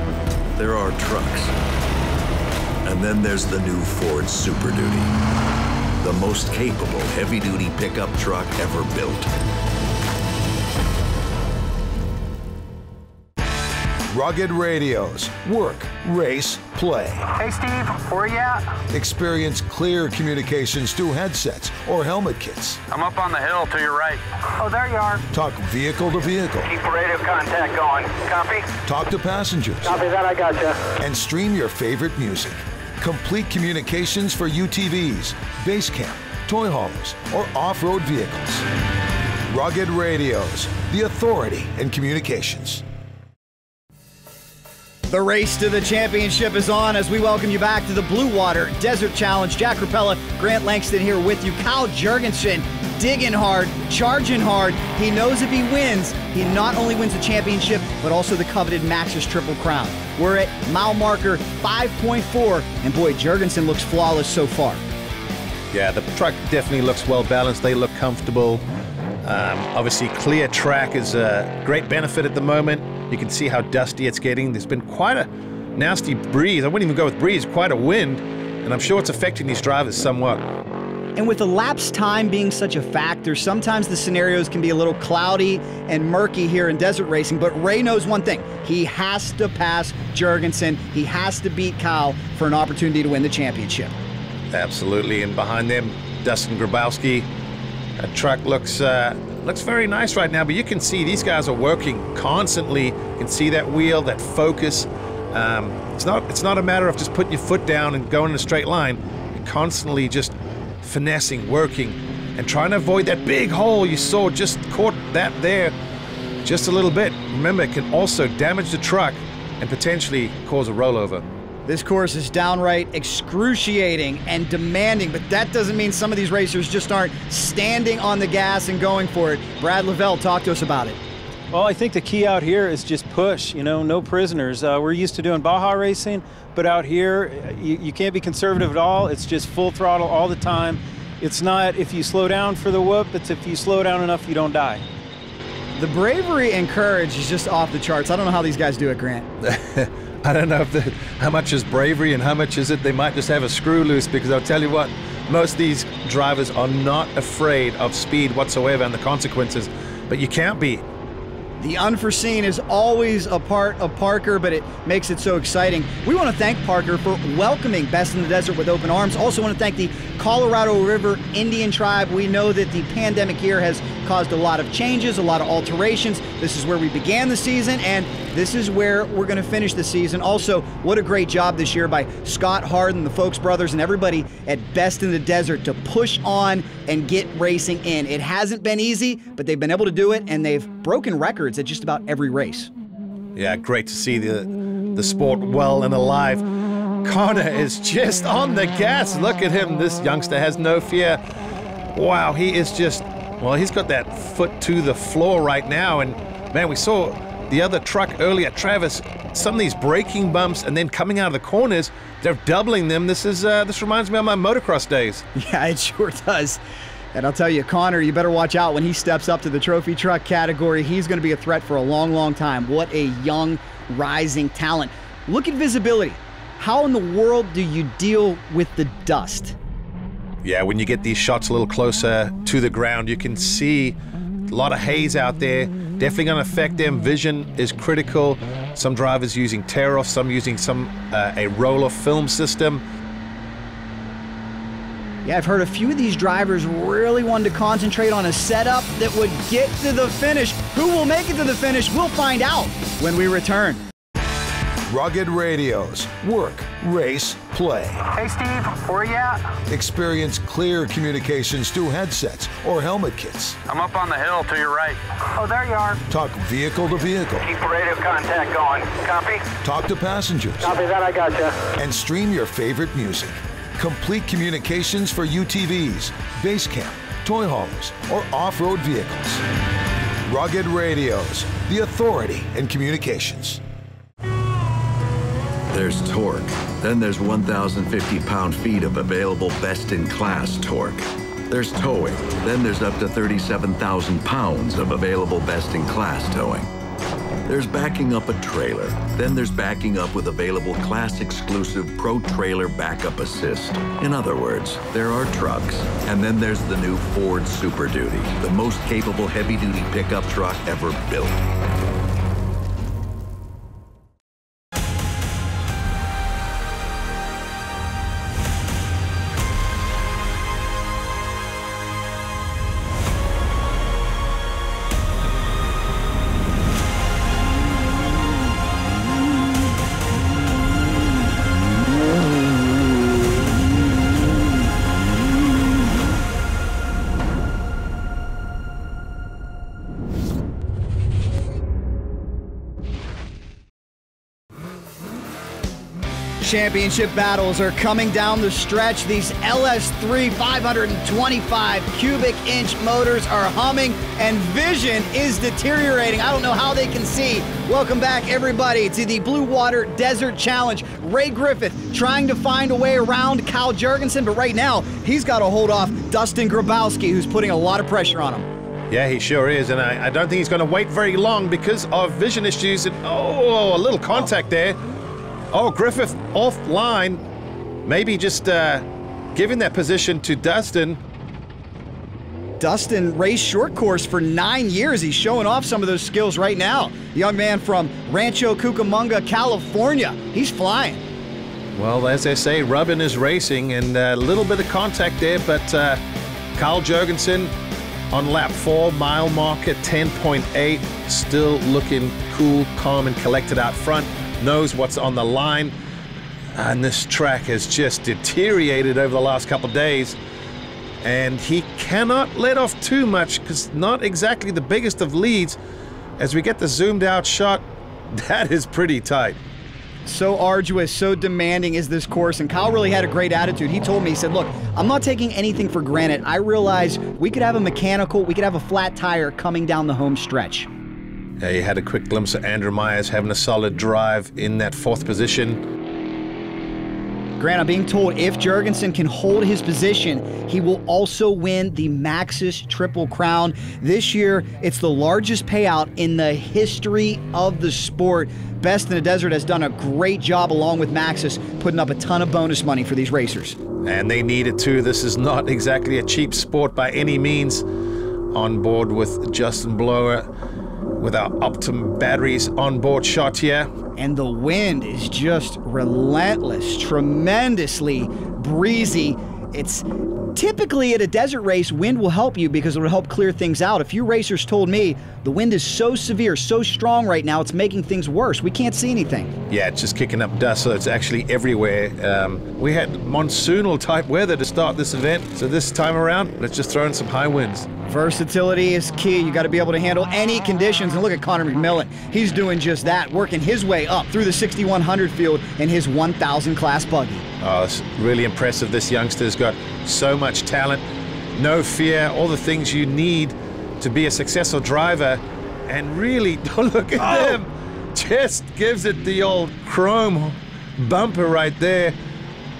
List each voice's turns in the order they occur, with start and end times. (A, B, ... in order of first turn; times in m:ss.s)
0:00.5-0:01.5 A
0:02.8-0:05.1 A
0:06.0-0:09.3 A
0:14.1-0:17.3 B
0:17.4-0:18.6 C
0:18.9-0:22.8 B
0:22.9-0:24.8 C
0:25.3-0:26.7 B
0:26.6-0:28.7 C
0:28.8-0:29.9 B
0:29.8-0:30.8 C
0:31.0-0:38.6 B
0:39.5-0:42.8 B
0:45.1-1:04.8 D
1:05.7-1:08.6 E
1:09.2-1:20.4 E
1:21.2-1:33.9 D
1:34.5-1:37.3 E
1:38.0-1:55.7 E
1:56.4-2:01.3 E
2:01.6-2:11.0 D
2:11.5-2:24.8 F
2:25.7-2:29.3 D
2:29.4-2:40.8 E
2:41.6-3:12.7 D
3:13.3-3:16.4 E
3:17.0-3:21.2 E
3:21.9-3:35.2 E
3:35.3-3:36.6 D
3:37.1-3:49.5 D
3:50.4-3:54.0 E
3:54.5-4:02.8 E
4:05.2-4:13.8 D
4:14.9-4:18.0 B
4:18.2-4:19.4 C
4:19.7-4:23.6 B
4:23.7-4:26.0 C
4:26.1-4:27.5 B
4:27.4-4:29.5 C
4:29.6-4:30.8 B
4:30.6-4:31.6 C
4:31.8-4:39.4 B
4:40.2-4:43.6 B
4:45.7-4:56.7 A
4:57.4-5:11.5 A
5:46.4-6:08.4 D
6:08.9-6:14.8 E
6:15.5-6:17.2 E
6:17.8-6:21.0 E
6:22.6-6:31.0 D
6:31.7-6:36.0 E
6:36.5-6:37.5 E
6:38.1-6:45.7 E
6:46.5-6:50.2 E
6:51.0-6:55.6 E
6:56.2-6:59.4 E
7:00.0-7:10.7 D
7:11.4-7:15.6 E
7:17.4-7:33.6 D
7:33.8-7:37.6 E
7:38.3-7:40.3 E
7:41.0-7:43.7 E
7:44.0-7:59.3 D
7:59.5-8:07.7 E
8:07.9-8:17.2 D
8:17.4-8:32.0 E